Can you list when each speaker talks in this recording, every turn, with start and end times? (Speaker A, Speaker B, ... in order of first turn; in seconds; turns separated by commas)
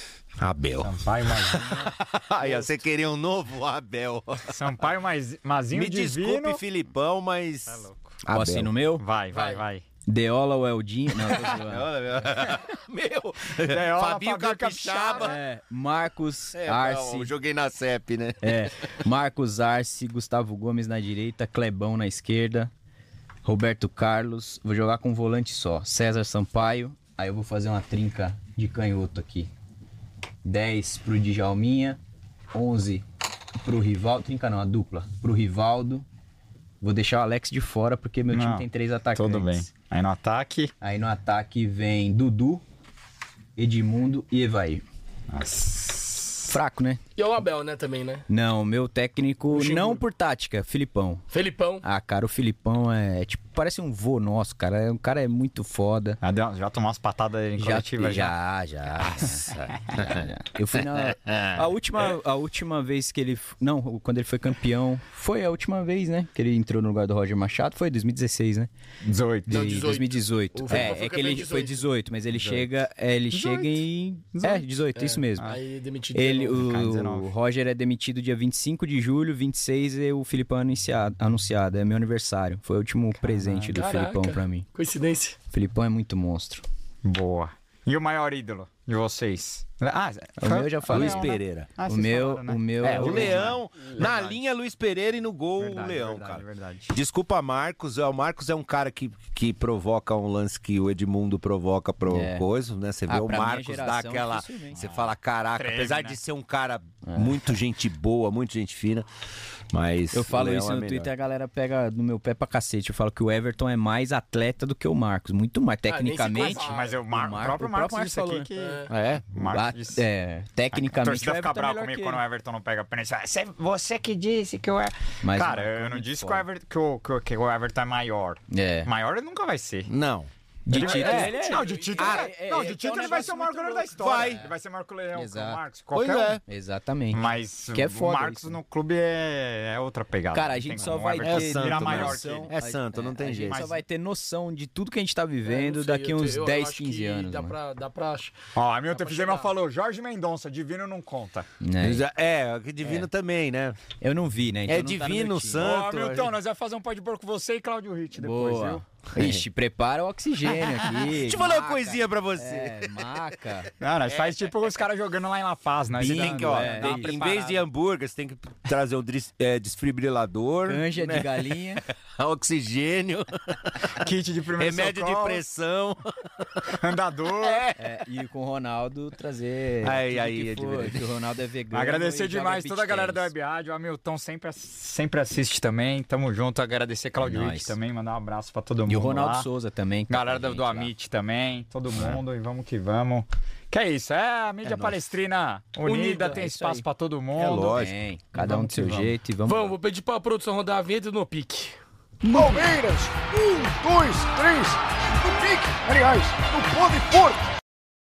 Speaker A: 0.4-4.5, Speaker B: 0.8-1.8, Speaker B: 4.5-6.6, Speaker A: 5.7-8.7, Speaker B: 7.7-8.2, Speaker C: 8.3-9.0, Speaker B: 9.0-9.8, Speaker D: 9.3-9.6, Speaker C: 10.1-11.9, Speaker A: 11.2-15.4, Speaker B: 13.7-15.3, Speaker C: 15.2-17.3, Speaker A: 16.5-18.7, Speaker C: 18.4-22.7, Speaker C: 23.4-29.5, Speaker C: 30.4-32.0, Speaker C: 32.5-33.0, Speaker C: 33.6-36.0, Speaker C: 36.8-39.7, Speaker B: 38.3-40.7, Speaker C: 40.8-42.6, Speaker C: 43.5-44.8, Speaker B: 45.3-46.5, Speaker C: 46.5-47.0, Speaker D: 47.1-48.2, Speaker C: 48.3-51.3, Speaker D: 49.5-50.0, Speaker D: 51.3-51.8, Speaker C: 51.8-56.2, Speaker B: 56.2-58.3, Speaker C: 57.6-68.7, Speaker A: 59.1-60.2, Speaker A: 61.3-61.6, Speaker B: 69.0-69.8, Speaker C: 69.5-75.6, Speaker D: 69.5-71.8, Speaker A: 70.7-71.0, Speaker B: 73.3-74.7, Speaker D: 74.9-76.6, Speaker C: 76.1-84.7, Speaker B: 76.5-77.3, Speaker B: 83.2-83.8, Speaker D: 83.7-85.4, Speaker C: 85.5-86.6, Speaker B: 87.0-94.4, Speaker C: 90.4-91.3, Speaker A: 90.9-91.7, Speaker C: 91.9-93.6, Speaker A: 92.8-109.1, Speaker B: 95.6-97.0, Speaker C: 102.0-102.5, Speaker C: 103.1-104.8, Speaker B: 104.7-106.2, Speaker C: 107.0-107.5, Speaker A: 109.7-111.1, Speaker C: 110.1-118.5, Speaker D: 115.8-117.0, Speaker B: 116.3-120.0, Speaker D: 118.5-118.9, Speaker A: 118.9-119.2, Speaker C: 119.4-122.2, Speaker B: 120.7-129.9, Speaker C: 125.2-126.4, Speaker C: 128.5-128.9, Speaker A: 129.9-131.3, Speaker C: 130.7-134.5, Speaker B: 130.7-136.4, Speaker D: 131.4-132.2, Speaker A: 132.0-132.3, Speaker A: 133.9-134.4, Speaker C: 135.1-135.6, Speaker A: 135.9-136.4, Speaker C: 136.5-138.6, Speaker B: 137.1-142.5, Speaker C: 140.3-147.5, Speaker A: 141.2-143.6, Speaker B: 143.5-143.8, Speaker D: 145.5-148.3, Speaker B: 148.5-151.5, Speaker D: 148.9-149.5, Speaker C: 151.6-152.0, Speaker A: 151.8-153.8, Speaker C: 152.8-153.1, Speaker C: 154.0-155.6, Speaker A: 154.7-156.3, Speaker B: 155.6-158.8, Speaker C: 158.2-163.7, Speaker A: 159.2-159.4, Speaker A: 161.1-163.2, Speaker B: 163.8-167.6, Speaker A: 164.1-164.3, Speaker A: 165.9-171.6, Speaker C: 166.0-167.3, Speaker C: 170.7-171.8, Speaker A: 172.2-173.9, Speaker B: 174.0-175.4, Speaker A: 174.6-176.6, Speaker B: 176.7-177.6, Speaker A: 177.4-177.8, Speaker C: 177.8-183.3, Speaker A: 179.8-181.0, Speaker B: 181.7-189.5, Speaker C: 187.2-187.7, Speaker C: 188.9-190.9, Speaker B: 190.1-197.8, Speaker A: 194.6-194.9, Speaker D: 195.8-196.4, Speaker C: 196.3-196.8, Speaker A: 197.3-197.9, Speaker C: 197.7-199.7, Speaker B: 198.3-199.2, Speaker D: 199.5-201.8, Speaker E: 202.3-207.4